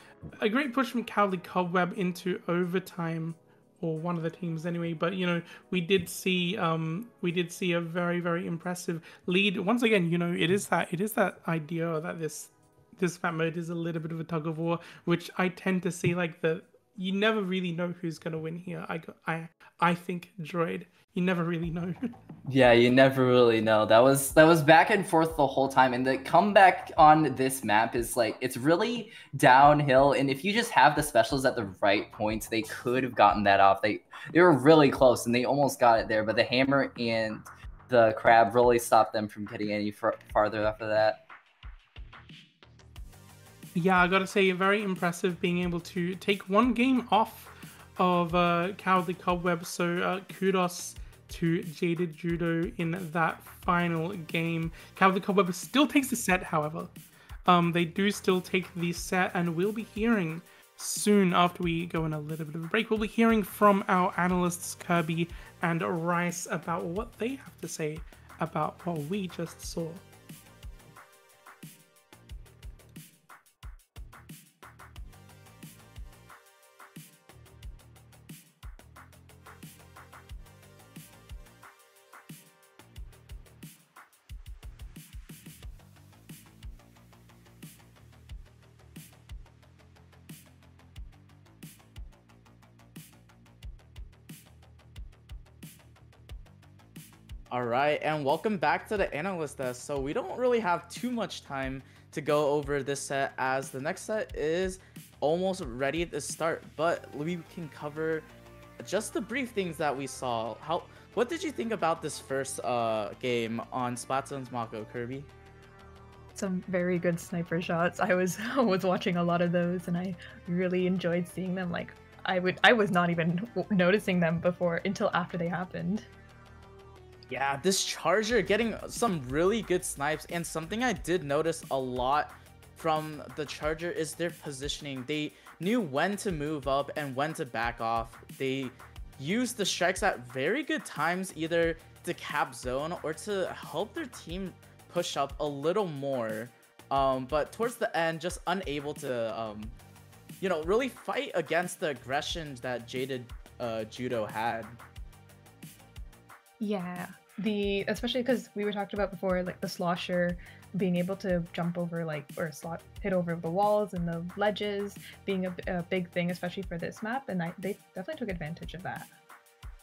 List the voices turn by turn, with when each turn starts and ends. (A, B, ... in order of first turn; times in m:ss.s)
0:00.4-0:22.0 A
0:22.5-0:41.2 B
0:43.8-0:56.9 A
0:57.5-1:10.0 A
1:37.5-1:48.3 C
1:48.8-1:55.3 C
1:56.4-2:06.1 D
2:07.3-2:29.8 C
2:30.4-2:34.8 C
2:36.6-2:49.1 D